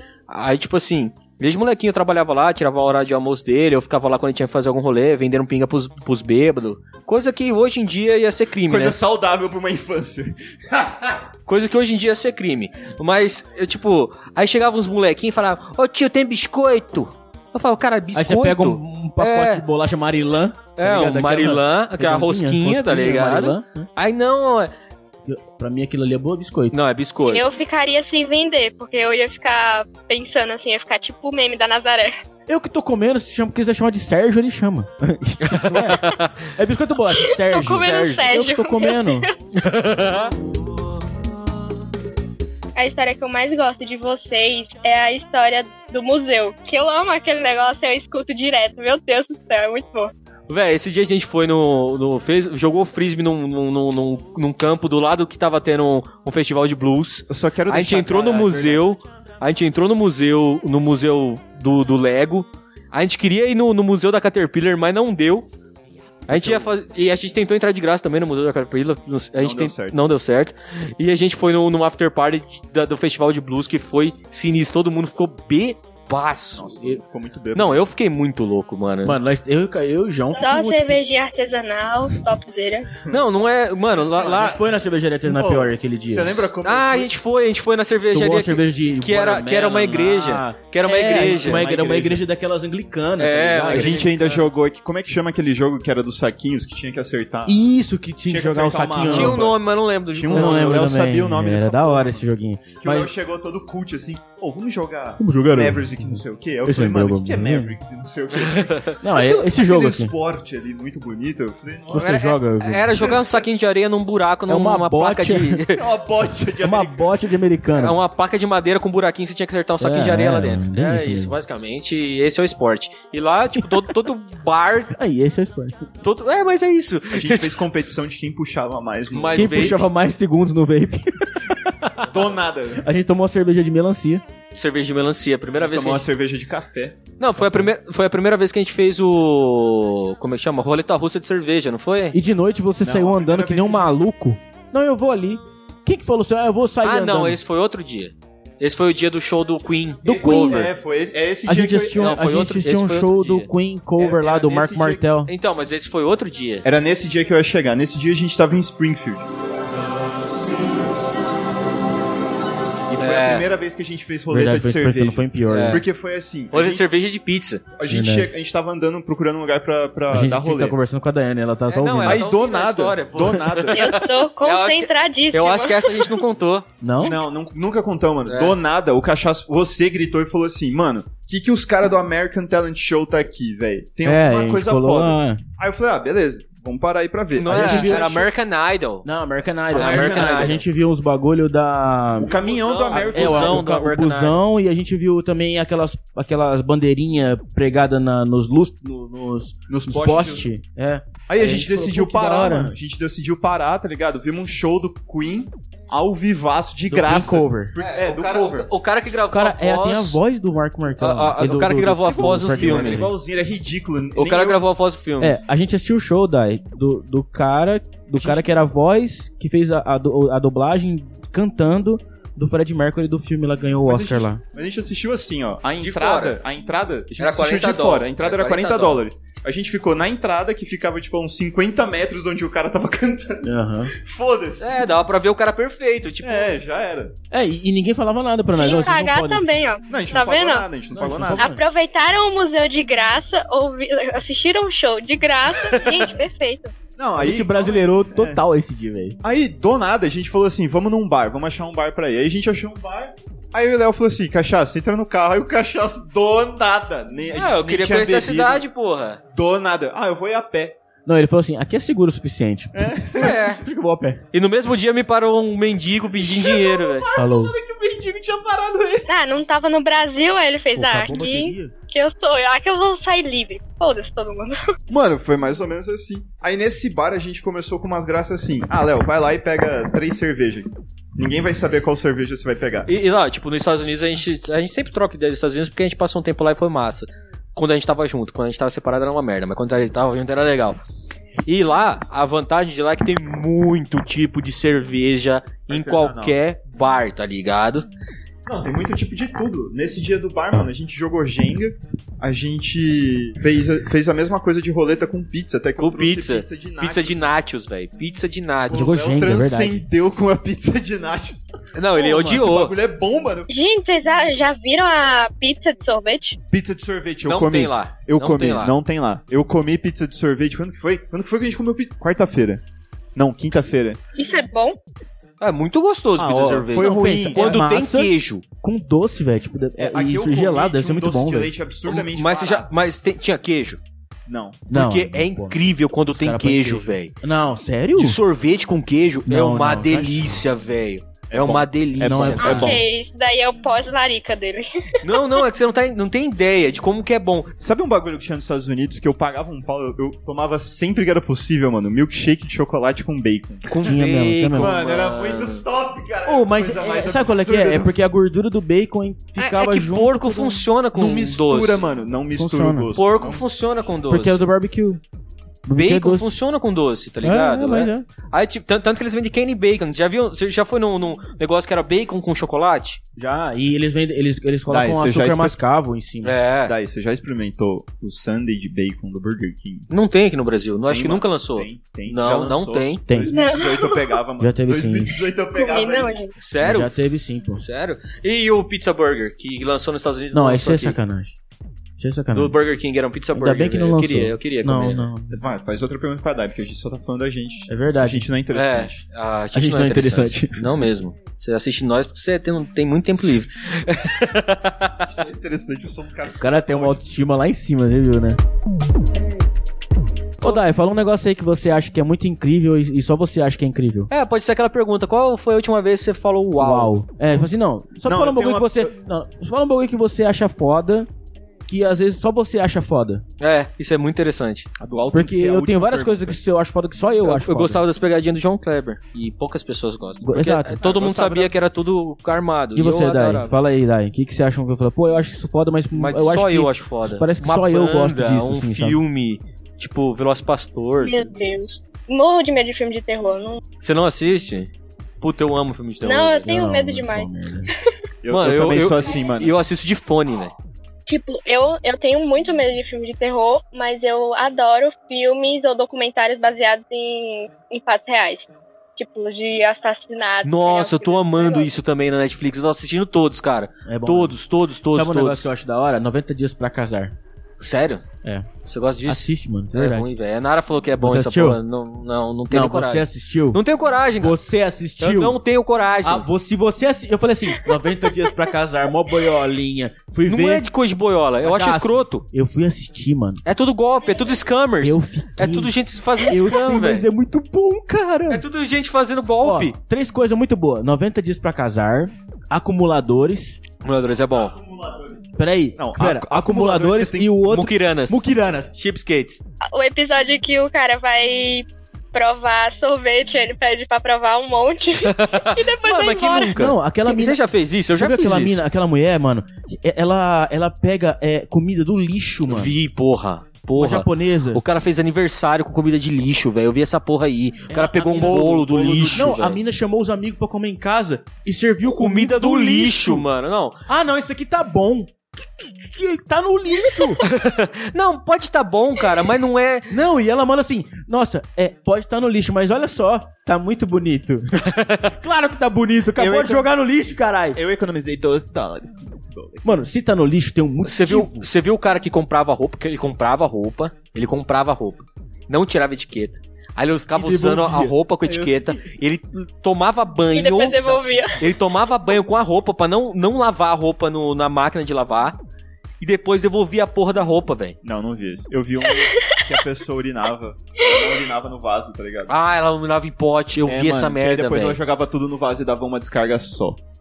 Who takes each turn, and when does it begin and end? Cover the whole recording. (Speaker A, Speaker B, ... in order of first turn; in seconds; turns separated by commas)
Speaker A: 0.3-9.0, Speaker B: 8.7-11.2, Speaker A: 11.5-19.6, Speaker C: 18.1-23.9, Speaker A: 20.8-24.7, Speaker C: 25.3-26.8, Speaker A: 26.7-27.4, Speaker D: 27.3-32.1, Speaker C: 32.5-39.3, Speaker A: 35.4-36.5, Speaker D: 37.4-39.3, Speaker A: 37.6-38.2, Speaker A: 39.5-40.3, Speaker D: 42.8-50.1, Speaker A: 50.5-65.5, Speaker B: 57.3-58.9, Speaker A: 66.3-77.0, Speaker B: 66.3-66.7, Speaker B: 69.4-70.0, Speaker B: 76.5-77.8, Speaker A: 77.5-79.2, Speaker C: 79.0-81.0, Speaker D: 80.4-82.9, Speaker A: 83.1-84.6, Speaker B: 84.1-84.5, Speaker C: 84.2-86.5, Speaker B: 85.3-87.1, Speaker A: 86.6-91.6, Speaker C: 88.1-94.0, Speaker B: 91.2-92.2, Speaker A: 93.2-94.5, Speaker B: 93.7-97.6, Speaker C: 97.5-99.4, Speaker B: 98.2-102.3, Speaker A: 99.0-100.8, Speaker C: 100.3-103.1, Speaker B: 102.8-112.1, Speaker C: 105.2-107.8, Speaker A: 108.4-108.9, Speaker C: 109.0-110.1, Speaker C: 111.9-113.0, Speaker A: 112.0-115.9, Speaker B: 113.0-113.4, Speaker C: 114.5-115.7, Speaker B: 115.8-117.1, Speaker C: 116.6-118.0, Speaker A: 117.8-125.0, Speaker C: 119.8-121.3, Speaker C: 124.9-125.9, Speaker A: 126.0-127.6, Speaker B: 127.1-129.8, Speaker A: 129.1-129.8, Speaker C: 129.3-132.1, Speaker B: 132.0-132.9, Speaker C: 132.8-134.2, Speaker A: 134.6-136.1, Speaker B: 135.6-137.6, Speaker A: 137.2-142.2, Speaker C: 142.1-147.4, Speaker B: 142.8-143.9, Speaker A: 146.8-150.7, Speaker C: 150.0-150.7, Speaker B: 150.1-152.2, Speaker C: 151.5-155.3, Speaker A: 152.0-153.5, Speaker B: 154.0-155.1, Speaker A: 155.3-156.7, Speaker B: 156.6-159.3, Speaker B: 162.9-166.9, Speaker A: 162.9-163.5, Speaker C: 164.3-165.8, Speaker A: 165.5-165.8, Speaker A: 166.5-167.6, Speaker B: 167.8-170.8, Speaker C: 167.9-168.3, Speaker C: 170.1-172.2, Speaker A: 171.7-176.7, Speaker B: 172.1-173.9, Speaker D: 173.7-176.1, Speaker C: 176.8-177.2, Speaker B: 177.0-188.3, Speaker A: 178.3-178.6, Speaker C: 184.0-185.4, Speaker A: 187.4-189.1, Speaker C: 187.5-188.3, Speaker C: 189.0-192.3, Speaker B: 189.7-190.6, Speaker A: 189.7-190.6, Speaker B: 192.2-193.7, Speaker A: 192.2-194.4, Speaker C: 192.9-202.7, Speaker B: 199.7-200.5, Speaker B: 201.3-208.7, Speaker C: 206.9-207.7, Speaker A: 207.8-210.2, Speaker C: 209.3-213.1, Speaker A: 211.0-213.1, Speaker B: 212.0-214.6, Speaker A: 214.2-215.4, Speaker C: 215.2-224.4, Speaker B: 218.1-218.5, Speaker B: 223.8-234.8, Speaker A: 225.8-226.4, Speaker A: 227.2-229.0, Speaker C: 233.4-233.9, Speaker A: 234.6-236.5, Speaker B: 236.2-237.1, Speaker C: 237.3-239.5, Speaker D: 238.6-240.7, Speaker B: 239.9-241.5, Speaker C: 240.9-241.6, Speaker D: 241.4-246.7, Speaker A: 245.5-246.1, Speaker B: 247.0-248.4, Speaker C: 247.2-249.2, Speaker B: 249.2-258.6, Speaker A: 257.4-259.2, Speaker B: 259.3-260.8, Speaker C: 261.1-264.2, Speaker B: 262.7-263.4, Speaker A: 263.2-263.6, Speaker A: 264.3-267.1, Speaker B: 266.2-269.1, Speaker C: 267.1-267.6, Speaker D: 269.1-274.6, Speaker C: 270.7-271.7, Speaker B: 274.9-282.9, Speaker A: 282.9-290.8, Speaker A: 291.5-297.9, Speaker B: 295.7-296.4, Speaker B: 298.5-307.3, Speaker A: 305.8-308.9, Speaker C: 308.7-309.9, Speaker B: 308.7-313.5, Speaker A: 311.8-312.8, Speaker D: 313.5-316.4, Speaker B: 316.5-322.6, Speaker A: 317.3-318.7, Speaker B: 323.2-324.0, Speaker D: 324.2-324.8, Speaker A: 325.4-328.4, Speaker B: 326.2-327.9, Speaker C: 326.8-331.5, Speaker B: 329.8-332.7, Speaker A: 331.9-333.8, Speaker B: 334.3-334.6, Speaker C: 334.7-335.6, Speaker A: 334.7-337.1, Speaker C: 336.1-338.2, Speaker A: 338.0-342.8, Speaker C: 339.3-340.4, Speaker B: 341.3-342.8, Speaker C: 342.0-342.8, Speaker D: 342.4-345.4, Speaker A: 345.0-347.5, Speaker B: 347.6-353.8, Speaker A: 353.7-355.6, Speaker C: 353.9-354.7, Speaker B: 354.6-357.9, Speaker C: 356.3-360.6, Speaker A: 359.4-361.8, Speaker B: 360.9-363.4, Speaker C: 362.3-362.9, Speaker A: 363.0-364.4, Speaker C: 364.1-365.0, Speaker C: 365.6-366.3, Speaker A: 365.7-373.0, Speaker C: 367.2-368.1, Speaker C: 373.2-376.4, Speaker B: 374.7-375.6, Speaker A: 376.2-376.7, Speaker B: 376.7-379.9, Speaker A: 379.9-383.1, Speaker B: 380.9-386.3, Speaker D: 383.3-384.1, Speaker C: 384.4-385.3, Speaker D: 385.6-386.3, Speaker A: 386.4-386.9, Speaker C: 386.6-387.6, Speaker A: 387.6-391.0, Speaker C: 390.3-391.4, Speaker C: 392.0-392.6, Speaker A: 392.3-395.1, Speaker C: 393.3-395.3, Speaker B: 395.3-399.0, Speaker C: 397.7-398.3, Speaker A: 398.5-405.0, Speaker C: 399.5-400.7, Speaker B: 405.1-407.0, Speaker C: 406.4-408.4, Speaker C: 410.4-414.1, Speaker A: 414.1-416.9, Speaker C: 416.6-421.1, Speaker B: 418.1-418.9, Speaker C: 421.7-423.2, Speaker A: 423.4-424.7, Speaker B: 424.8-426.4, Speaker C: 425.1-427.8, Speaker A: 427.2-433.5, Speaker C: 430.2-430.8, Speaker B: 430.8-431.6, Speaker C: 432.8-439.0, Speaker A: 435.9-441.3, Speaker D: 441.0-443.6, Speaker A: 443.8-446.5, Speaker D: 446.0-447.3, Speaker C: 446.5-447.7, Speaker B: 448.2-449.6, Speaker A: 448.3-450.5, Speaker D: 451.1-461.7, Speaker A: 460.4-465.5, Speaker C: 463.9-464.4, Speaker C: 464.9-467.1, Speaker A: 467.6-468.0, Speaker C: 468.2-468.5, Speaker A: 468.6-474.4, Speaker C: 469.1-470.1, Speaker C: 471.0-471.6, Speaker C: 472.5-473.6, Speaker C: 474.2-475.4, Speaker A: 475.0-476.3, Speaker C: 476.0-480.6, Speaker A: 480.3-482.2, Speaker C: 481.4-483.4, Speaker A: 483.4-487.1, Speaker C: 484.8-488.4, Speaker A: 488.3-489.8, Speaker C: 489.4-493.6, Speaker A: 493.8-494.6, Speaker B: 494.2-497.4, Speaker C: 495.4-498.8, Speaker A: 497.5-499.4, Speaker D: 499.7-506.6, Speaker A: 505.0-508.6, Speaker C: 506.5-512.8, Speaker A: 512.5-519.5, Speaker C: 513.8-514.6, Speaker C: 517.7-523.3, Speaker B: 518.1-519.6, Speaker A: 521.8-523.8, Speaker C: 523.9-527.2, Speaker A: 527.2-529.9, Speaker C: 529.9-537.6, Speaker A: 534.6-535.1, Speaker B: 536.2-536.8, Speaker B: 537.5-539.8, Speaker C: 539.6-541.5, Speaker A: 540.8-555.4, Speaker C: 547.1-548.8, Speaker D: 550.3-551.4, Speaker A: 556.0-557.8, Speaker B: 557.8-562.3, Speaker D: 558.9-559.4, Speaker D: 560.9-561.2, Speaker A: 562.3-564.8, Speaker B: 563.7-566.8